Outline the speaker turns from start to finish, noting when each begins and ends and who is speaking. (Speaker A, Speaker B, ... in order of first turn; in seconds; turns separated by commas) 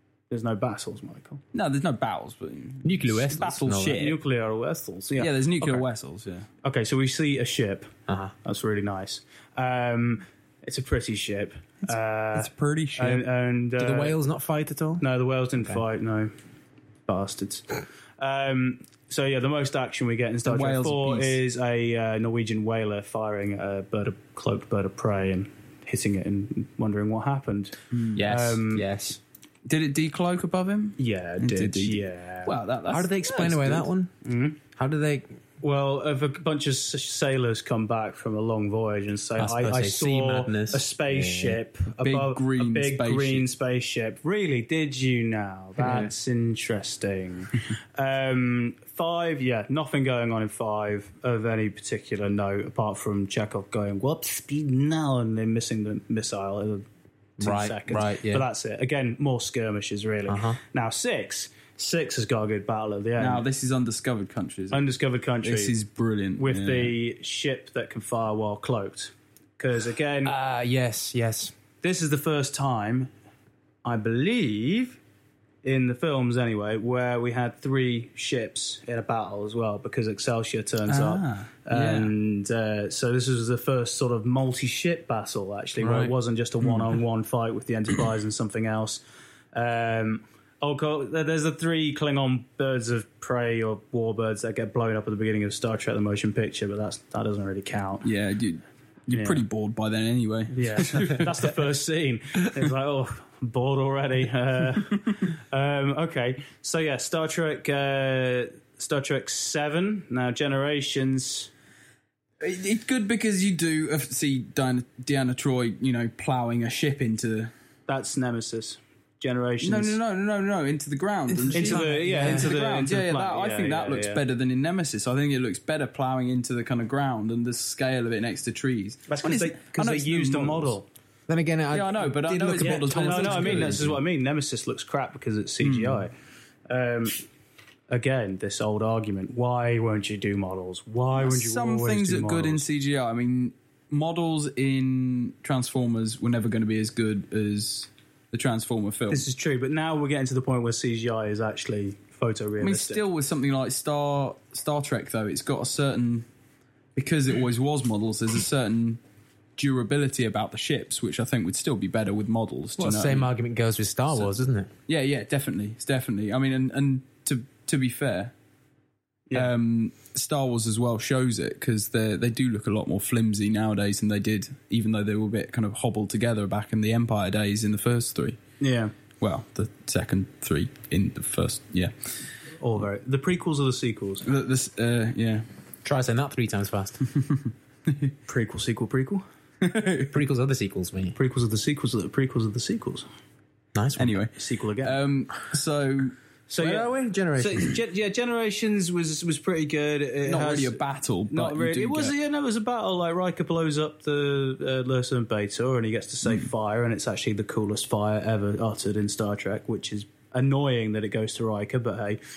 Speaker A: 0.3-1.4, Speaker B: 1.5-4.2, Speaker C: 2.8-4.1, Speaker A: 4.0-5.8, Speaker B: 5.2-6.5, Speaker A: 6.6-14.2, Speaker C: 8.1-8.3, Speaker B: 12.3-13.2, Speaker C: 13.8-15.1, Speaker A: 15.0-16.3, Speaker A: 17.1-17.7, Speaker A: 18.2-28.8, Speaker B: 20.5-21.4, Speaker B: 27.9-28.2, Speaker C: 28.1-29.2, Speaker B: 29.7-33.9, Speaker A: 31.0-32.5, Speaker C: 32.9-34.1, Speaker A: 34.2-34.6, Speaker C: 34.7-35.4, Speaker A: 35.6-56.9, Speaker C: 39.4-41.6, Speaker B: 42.0-43.5, Speaker C: 45.8-46.1, Speaker C: 57.4-58.5, Speaker A: 57.4-63.4, Speaker C: 60.3-60.6, Speaker B: 63.2-64.8, Speaker A: 64.7-65.7, Speaker B: 65.4-66.9, Speaker A: 66.4-70.3, Speaker C: 70.2-71.5, Speaker A: 71.8-73.1, Speaker A: 73.8-75.0, Speaker A: 75.6-89.0, Speaker B: 80.9-82.1, Speaker C: 85.8-86.2, Speaker A: 89.5-98.1, Speaker B: 98.0-101.5, Speaker A: 99.1-99.4, Speaker A: 100.5-111.5, Speaker B: 112.4-117.5, Speaker A: 117.9-120.0, Speaker B: 119.6-130.8, Speaker C: 121.3-122.6, Speaker A: 121.5-124.2, Speaker A: 129.1-130.9, Speaker C: 131.3-134.0, Speaker B: 131.7-133.8, Speaker A: 132.6-136.1, Speaker B: 135.6-136.0, Speaker A: 136.7-137.2, Speaker A: 137.9-142.6, Speaker B: 141.2-149.2, Speaker A: 149.1-153.0, Speaker B: 152.6-156.3, Speaker B: 157.0-159.0, Speaker B: 159.6-163.3, Speaker C: 162.8-164.7, Speaker B: 164.9-168.3, Speaker B: 169.3-178.4, Speaker A: 178.6-178.9, Speaker B: 179.2-181.9, Speaker A: 182.6-184.3, Speaker B: 184.2-185.4, Speaker C: 185.8-187.1, Speaker A: 188.3-189.2, Speaker B: 189.6-190.1, Speaker C: 190.1-191.2, Speaker A: 191.2-193.1, Speaker C: 193.8-194.2, Speaker B: 194.0-196.2, Speaker A: 194.4-195.0, Speaker A: 196.5-200.8, Speaker C: 196.6-197.8, Speaker B: 200.2-202.2, Speaker A: 201.3-212.2